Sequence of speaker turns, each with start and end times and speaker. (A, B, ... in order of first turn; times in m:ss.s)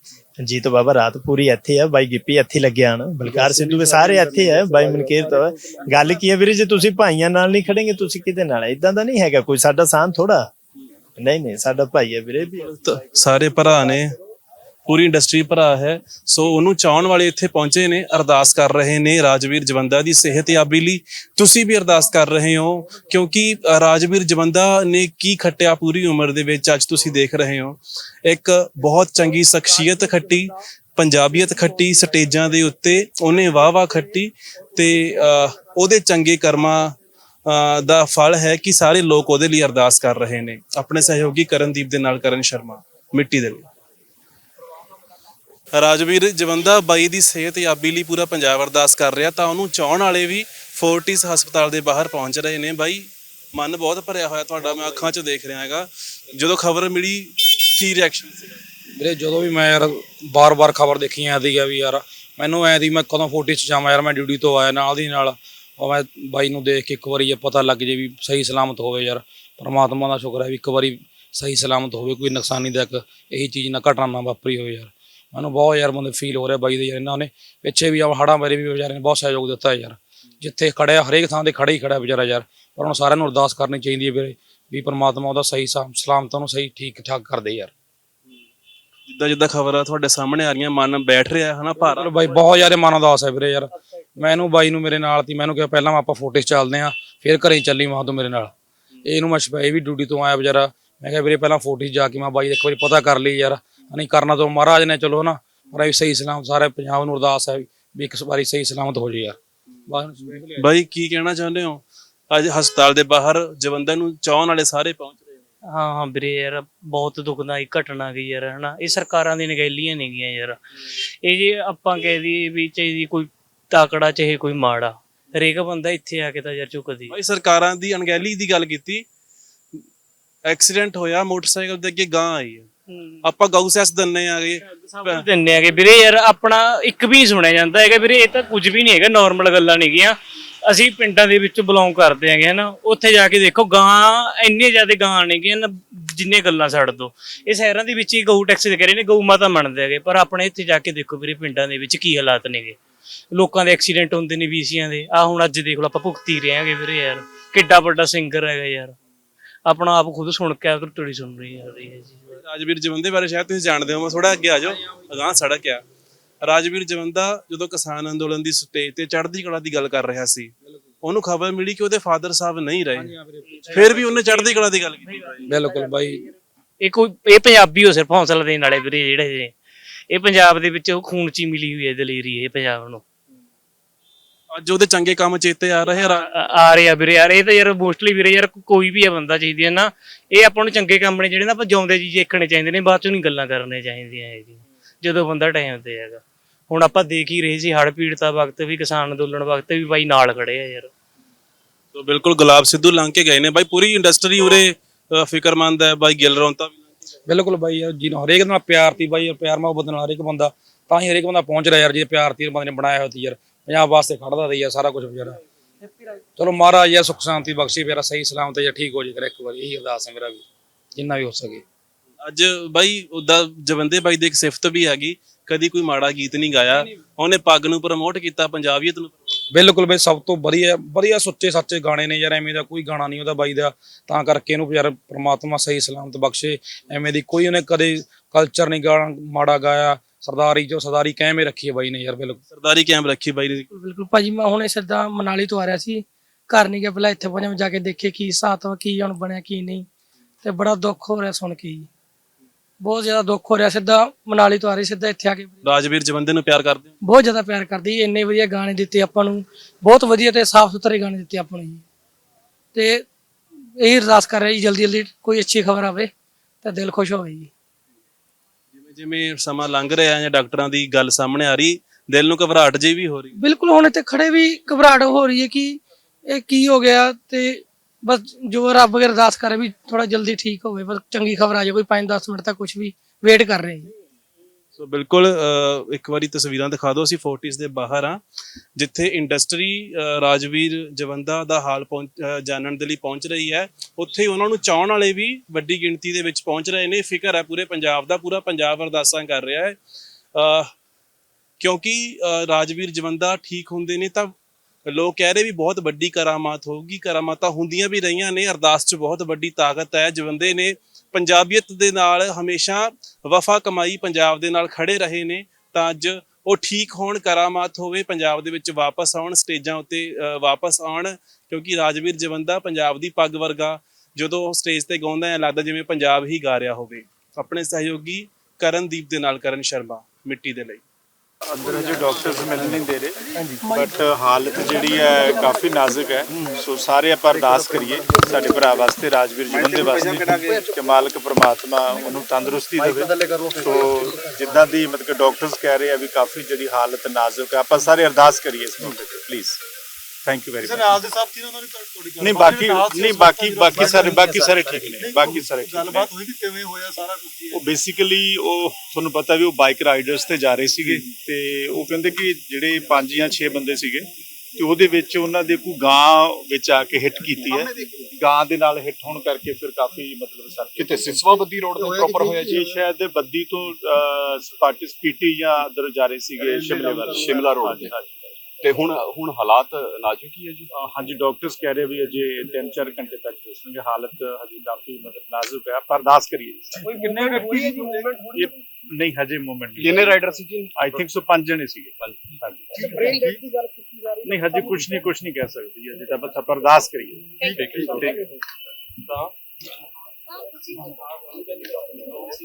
0:00.4-0:10.5 A
0:03.4-0:03.8 B
0:11.2-0:12.7 A
0:12.7-0:14.2 C
0:14.9-0:36.9 C
0:37.5-0:43.6 C
0:45.7-0:58.5 C
0:59.0-1:27.7 D
1:29.1-1:32.1 C
1:31.8-1:38.5 D
1:39.0-1:49.4 D
1:49.9-1:50.7 D
1:50.6-1:55.2 C
1:55.6-2:07.2 E
2:07.1-2:09.0 C
2:10.5-2:12.7 C
2:12.9-2:13.3 E
2:13.2-2:15.3 C
2:14.9-2:32.8 E
2:33.3-2:39.0 E
2:39.7-2:42.2 E
2:42.4-2:45.8 C
2:46.4-2:53.1 C
2:53.0-2:53.8 D
2:53.7-2:54.4 E
2:53.7-2:55.5 C
2:55.5-2:56.3 D
2:56.8-2:59.5 E
3:00.1-3:03.0 E
3:04.5-3:06.3 C
3:06.2-3:20.9 E
3:21.9-3:26.8 C
3:27.3-3:35.4 D
3:36.4-3:40.4 D
3:41.0-3:41.6 D
3:42.2-3:49.2 C
3:49.5-4:02.4 D
4:02.5-4:03.7 C
4:03.7-4:09.9 F
4:10.4-4:11.9 F
4:12.8-4:15.6 F
4:15.6-4:16.9 C
4:17.0-4:21.8 F
4:22.8-4:23.0 F
4:23.8-4:26.1 F
4:26.6-4:27.5 F
4:28.7-4:33.4 C
4:33.4-4:43.9 F
4:44.8-4:48.2 C
4:48.8-4:59.8 C
5:00.4-5:00.7 C
5:01.6-5:04.3 C
5:04.9-5:30.8 C
5:31.5-5:49.6 B
5:50.2-6:11.3 B
6:10.8-6:12.5 G
6:11.9-6:18.4 B
6:17.1-6:17.9 G
6:18.6-6:20.7 G
6:20.7-6:30.2 B
6:29.8-6:30.7 G
6:30.7-6:33.4 B
6:34.2-6:38.2 B